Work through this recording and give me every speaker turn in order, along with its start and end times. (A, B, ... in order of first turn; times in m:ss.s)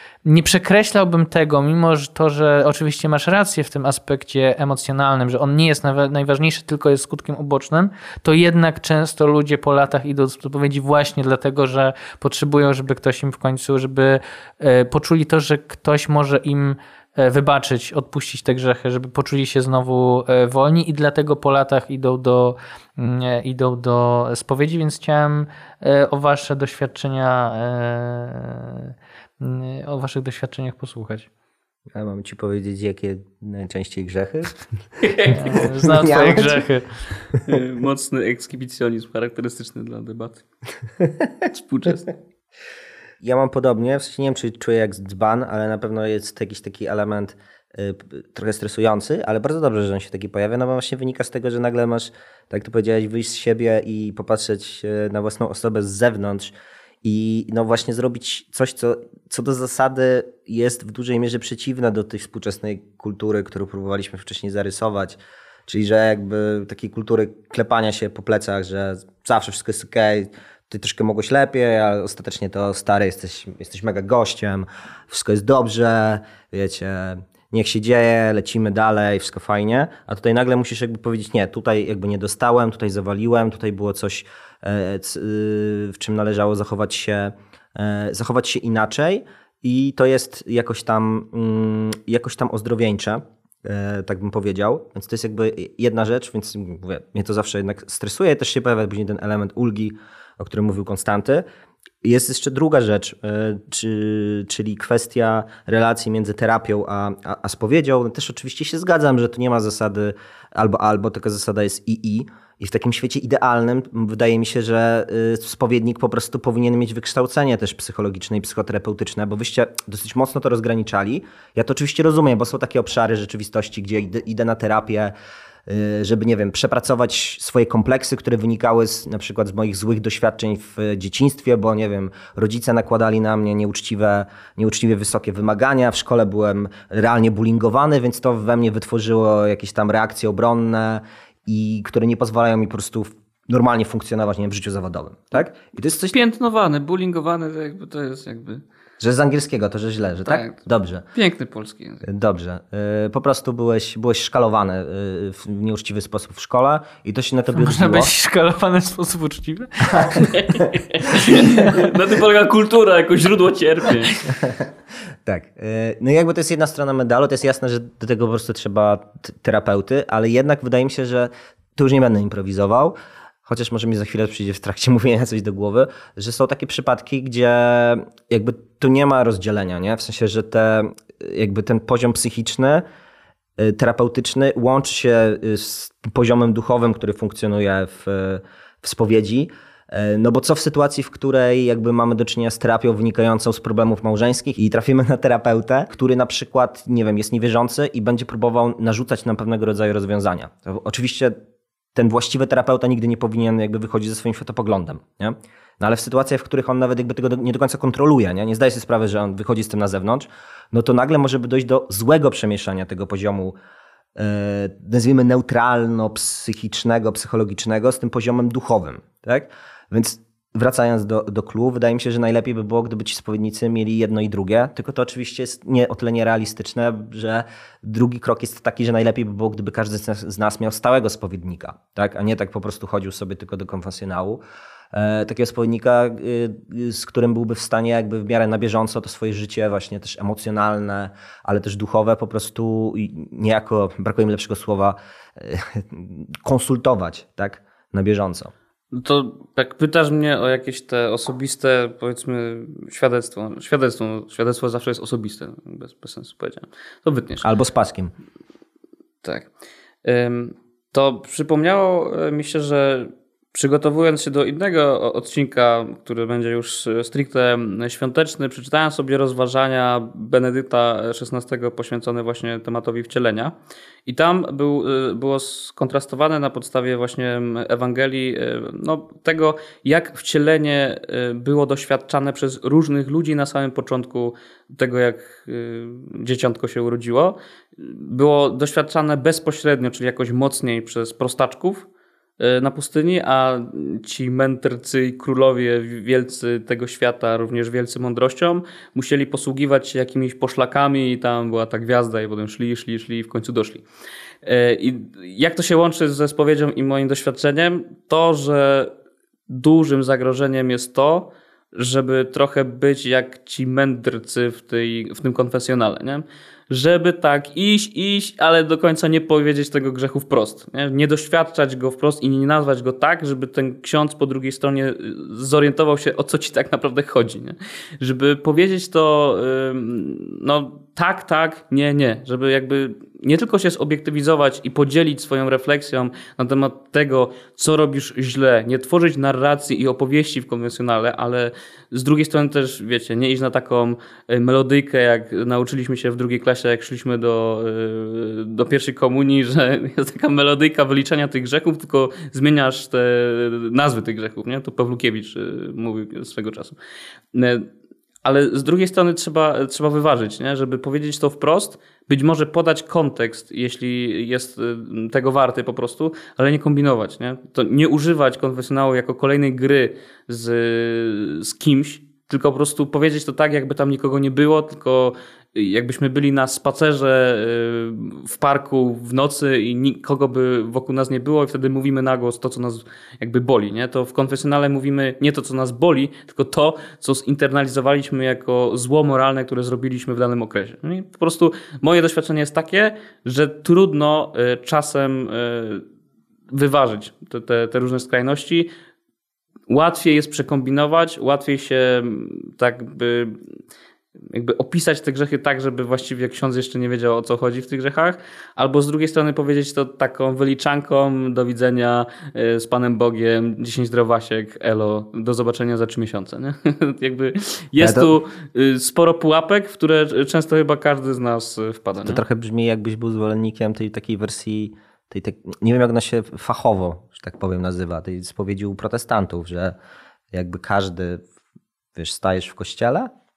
0:00.2-0:31.3 A
0:31.9-0:34.6 B
0:35.0-0:35.5 C
0:35.3-0:36.9 A
0:35.4-0:36.6 B
0:37.4-0:40.4 C
0:41.4-0:42.1 C
0:43.2-1:41.4 B
1:42.0-2:05.1 B
2:05.7-2:26.2 B
2:26.1-2:28.6 C
2:29.0-2:31.0 B
2:30.2-2:30.6 C
2:31.1-2:32.0 C
2:32.0-2:38.1 B
2:37.5-2:40.5 A
2:40.3-2:44.2 C
2:41.1-2:41.8 A
2:44.3-2:44.6 B
2:45.2-2:52.9 B
2:53.4-3:02.8 B
3:03.6-3:21.4 B
3:21.9-3:33.5 B
3:34.2-3:54.4 B
3:54.9-4:08.5 B
4:08.9-4:17.4 C
4:17.4-4:18.1 B
4:19.2-4:19.5 C
4:20.0-4:33.5 C
4:34.0-4:51.9 C
4:52.4-5:03.8 C
5:04.4-5:08.9 C
5:09.5-5:56.8 C
5:57.3-5:57.7 C
5:58.2-6:35.8 C
6:36.5-6:38.7 C
6:39.7-6:43.4 C
6:44.3-7:02.2 C
6:57.8-6:58.1 B
7:02.0-7:09.8 B
7:10.3-7:11.2 B
7:11.9-7:13.1 B